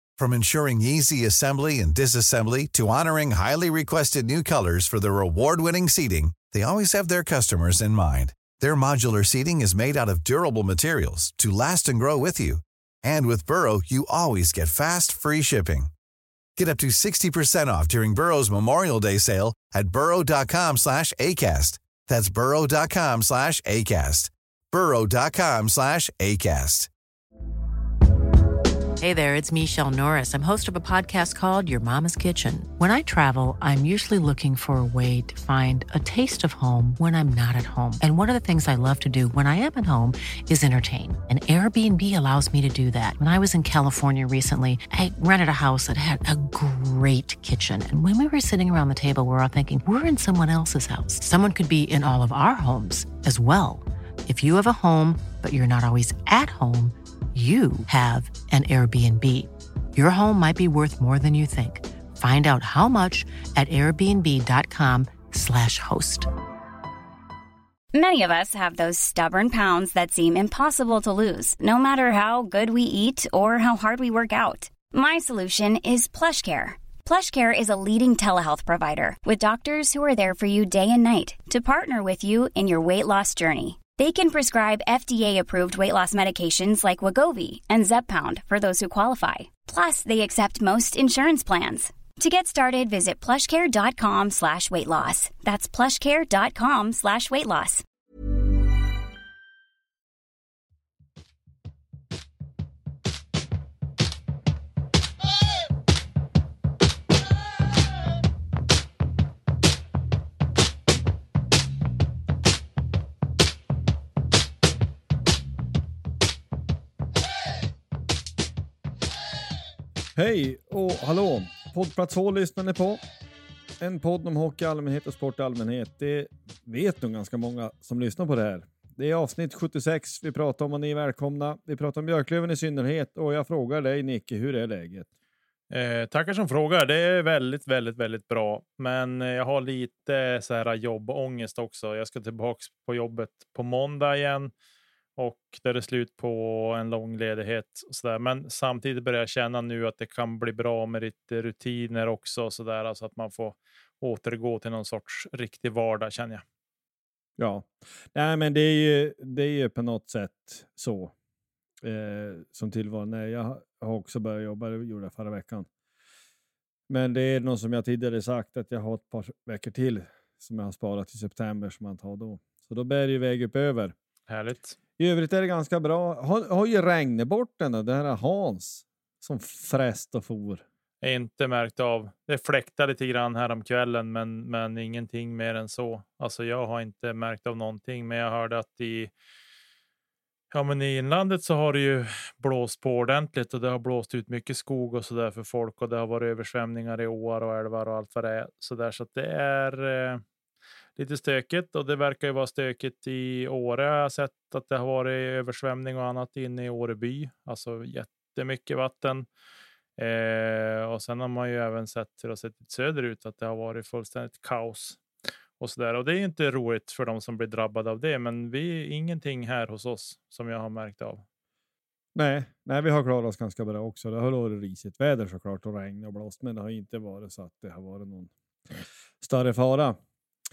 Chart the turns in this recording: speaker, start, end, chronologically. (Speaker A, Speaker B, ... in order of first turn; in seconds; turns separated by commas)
Speaker A: 0.2-15.9, Speaker A: 16.6-26.9, Speaker B: 29.0-66.3, Speaker C: 67.9-97.8, Speaker D: 120.2-123.0, Speaker D: 123.8-135.1, Speaker E: 135.7-144.5, Speaker E: 145.2-156.4, Speaker D: 157.4-161.1, Speaker D: 161.8-165.7, Speaker D: 166.9-173.9, Speaker E: 174.3-174.8, Speaker D: 175.0-180.6, Speaker E: 181.0-189.1, Speaker E: 190.5-200.2, Speaker E: 201.0-209.3, Speaker E: 210.0-215.0, Speaker E: 215.6-221.2, Speaker D: 222.2-228.3, Speaker D: 229.2-230.0